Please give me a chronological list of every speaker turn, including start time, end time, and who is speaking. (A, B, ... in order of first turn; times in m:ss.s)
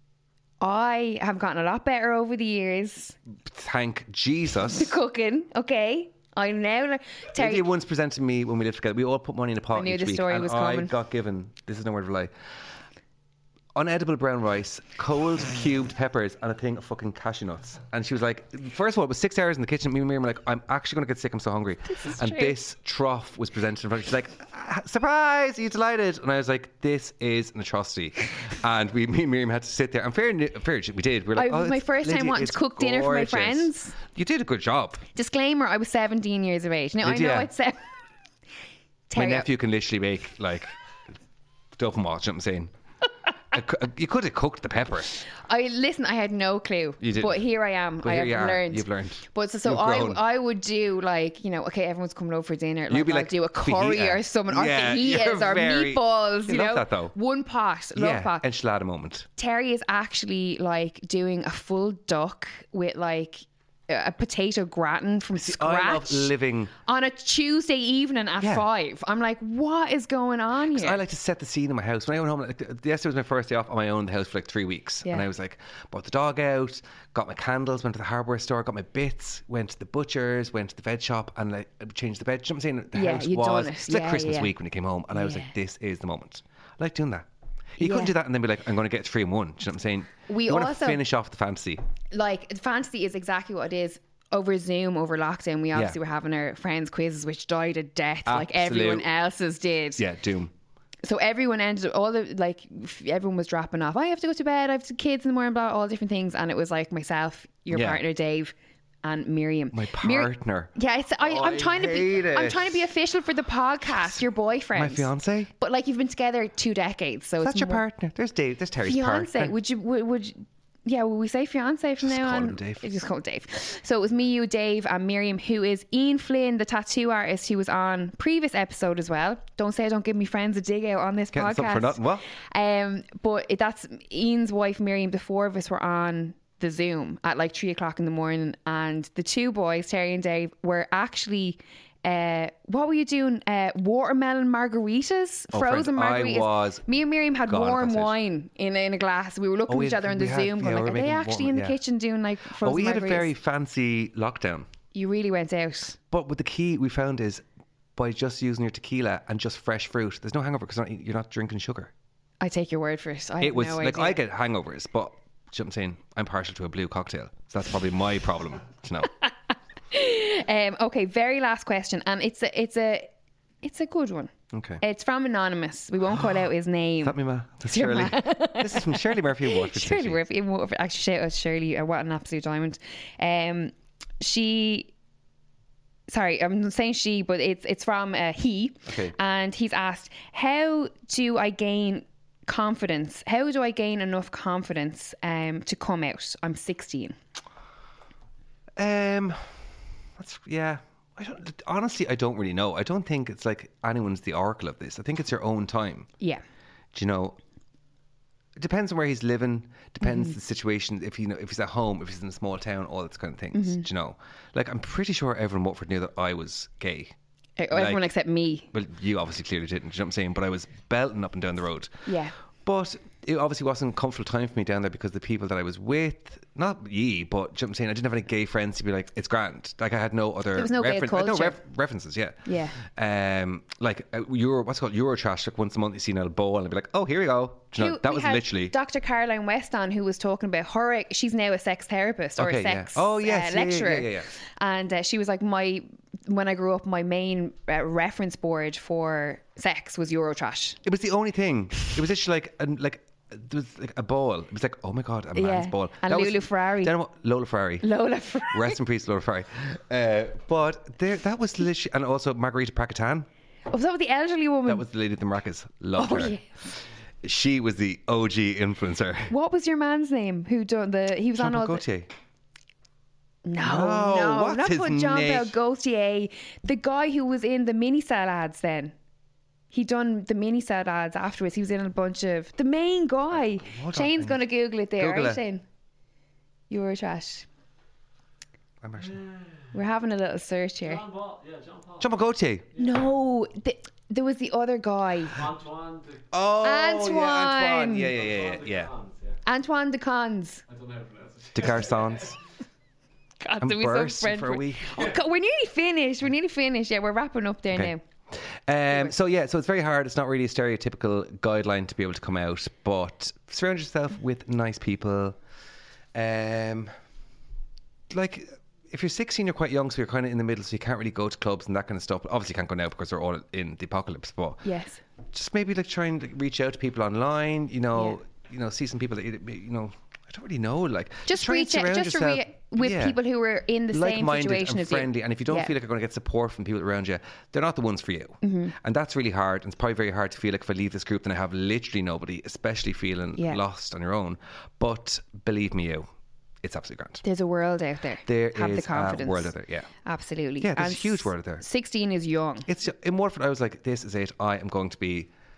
0:00.6-0:03.2 A
0:03.4-0:04.9 B
0:04.7-0:07.7 A
0:07.3-0:12.3 B
0:09.7-0:10.9 A
0:13.7-0:35.0 B
0:21.9-0:22.6 A
0:31.3-0:33.9 A
0:35.1-0:37.8 A
0:37.0-0:37.5 B
0:39.1-0:39.5 A
0:39.1-0:40.7 B
0:41.8-0:42.7 B
0:43.5-0:45.1 B
0:45.2-0:58.4 A
0:47.0-0:47.4 B
0:48.0-0:50.2 B
0:52.9-0:57.1 B
0:57.9-0:59.3 B
0:59.4-1:06.3 A
1:05.4-1:06.7 B
1:06.8-1:11.0 A
1:08.4-1:08.6 B
1:10.7-1:27.3 B
1:22.9-1:24.5 A
1:25.1-1:25.5 A
1:27.8-1:28.1 A
1:27.8-1:31.8 B
1:30.3-1:31.0 A
1:32.1-1:40.0 A
1:38.2-1:39.1 B
1:40.0-1:40.5 B
1:41.0-1:57.8 A
1:47.7-1:48.0 B
1:49.7-1:50.7 B
1:51.2-1:52.8 B
1:54.7-1:55.5 B
1:57.4-1:59.5 B
1:58.8-2:33.3 A
2:02.0-2:03.0 B
2:11.3-2:12.2 B
2:25.5-2:26.9 B
2:27.4-2:28.2 B
2:29.7-2:31.8 B
2:32.6-2:34.7 B
2:34.9-2:36.0 A
2:36.1-2:37.4 B
2:38.0-2:41.9 B
2:42.4-2:44.2 A
2:43.4-2:49.1 B
2:49.9-2:53.1 A
2:53.6-3:04.9 A
2:54.5-2:54.8 B
2:57.0-3:00.2 B
3:06.1-3:17.2 A
3:08.9-3:09.1 B
3:18.8-3:19.6 B
3:20.2-3:26.1 B
3:26.9-3:27.4 B
3:28.6-3:37.1 B
3:30.0-3:30.3 A
3:33.5-3:33.8 A
3:37.6-3:38.7 A
3:37.7-3:38.1 B
3:38.7-3:42.0 B
3:42.0-3:42.3 A
3:42.6-3:58.7 B
3:50.5-3:51.6 A
3:52.4-3:52.8 A
3:57.8-4:10.8 A
4:02.4-4:04.3 B
4:10.8-4:17.9 B
4:15.4-4:16.9 A
4:17.8-4:18.8 A
4:18.5-4:23.3 B
4:23.7-4:24.8 A
4:24.7-4:26.4 B
4:26.0-4:26.5 A
4:27.2-4:29.3 B
4:29.3-4:31.8 A
4:31.4-4:32.1 B
4:33.4-4:38.9 A
4:33.6-4:35.5 B
4:39.7-4:45.6 A
4:43.6-4:44.4 B
4:45.0-4:45.4 B
4:46.7-4:47.4 A
4:48.8-4:49.2 B
4:49.0-4:49.7 C
4:49.7-4:51.0 A
4:50.8-4:52.2 C
4:52.0-4:52.7 B
4:52.7-4:53.0 C
4:52.8-4:55.4 A
4:55.3-4:56.3 C
4:56.3-4:58.9 B
4:56.6-4:58.1 A
4:58.0-4:59.4 C
4:59.4-5:00.6 A
5:00.7-5:02.4 C
5:01.5-5:02.4 B
5:03.4-5:08.0 A
5:03.6-5:05.2 B
5:07.7-5:15.4 B
5:16.1-5:16.9 B
5:18.1-5:24.6 B
5:24.6-5:25.0 A
5:25.3-5:33.2 B
5:31.3-5:35.7 A
5:33.9-5:46.1 B
5:38.4-5:38.7 A
5:46.6-5:47.2 B
5:47.2-5:52.7 A
5:48.2-5:49.9 B
5:50.6-5:51.6 B
5:52.7-5:55.3 B